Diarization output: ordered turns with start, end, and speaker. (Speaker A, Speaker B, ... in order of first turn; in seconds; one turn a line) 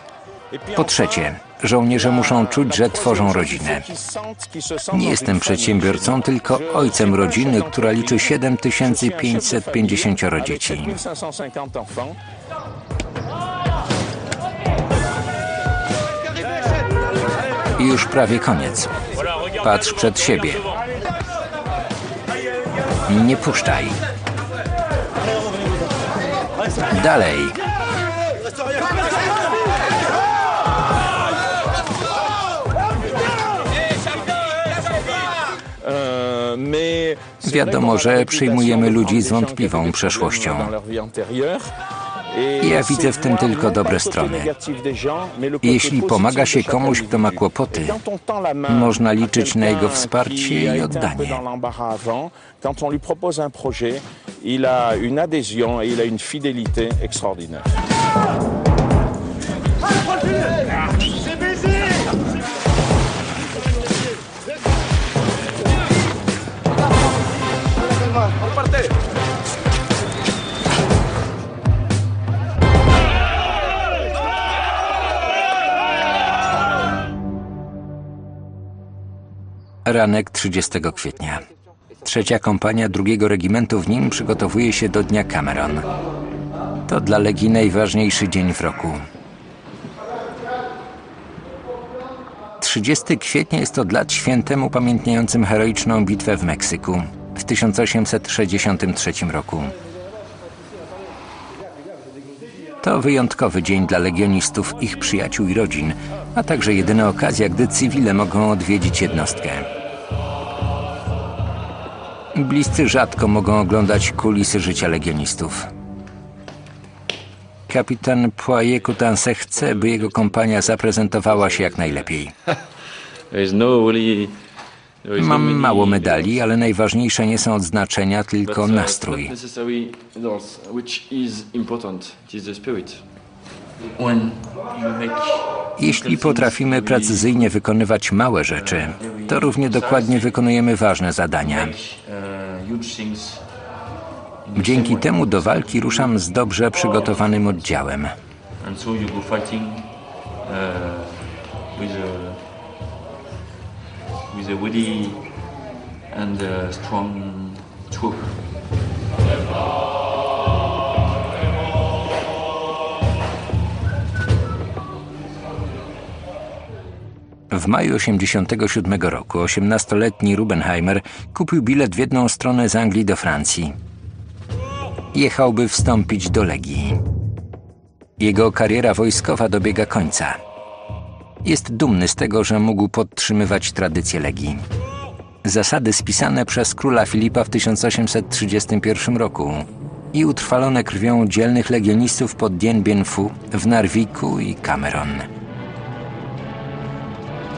Speaker A: 0.5-12.2
Speaker B: 0.8-3.9
Speaker B: 4.9-11.0
Speaker B: 17.8-18.9
Speaker B: 19.6-20.6
Speaker B: 23.1-24.0
Speaker B: 26.9-27.6
Speaker A: 35.8-41.7
Speaker B: 37.4-40.7
Speaker A: 42.3-57.7
Speaker B: 42.6-44.5
Speaker B: 45.6-48.0
Speaker B: 48.7-51.4
Speaker B: 79.9-81.5
Speaker B: 82.0-85.8
Speaker B: 86.9-89.0
Speaker B: 92.6-99.7
Speaker B: 102.8-109.7
Speaker B: 112.3-115.7
Speaker B: 117.7-122.3
Speaker C: 119.5-122.2
Speaker C: 123.3-124.4
Speaker C: 125.0-126.4
Speaker B: 125.2-129.3
Speaker C: 128.4-133.1
Speaker C: 133.9-137.6
Speaker B: 135.8-141.8
Speaker C: 138.5-140.4
Speaker C: 141.4-143.6
Speaker C: 144.4-147.7
Speaker B: 144.6-148.1
Speaker C: 148.6-152.5
Speaker C: 154.3-155.4
Speaker C: 156.1-158.5
Speaker B: 167.5-173.8
Speaker B: 175.1-177.0
Speaker B: 178.2-180.4
Speaker B: 181.4-184.6
Speaker B: 185.4-195.3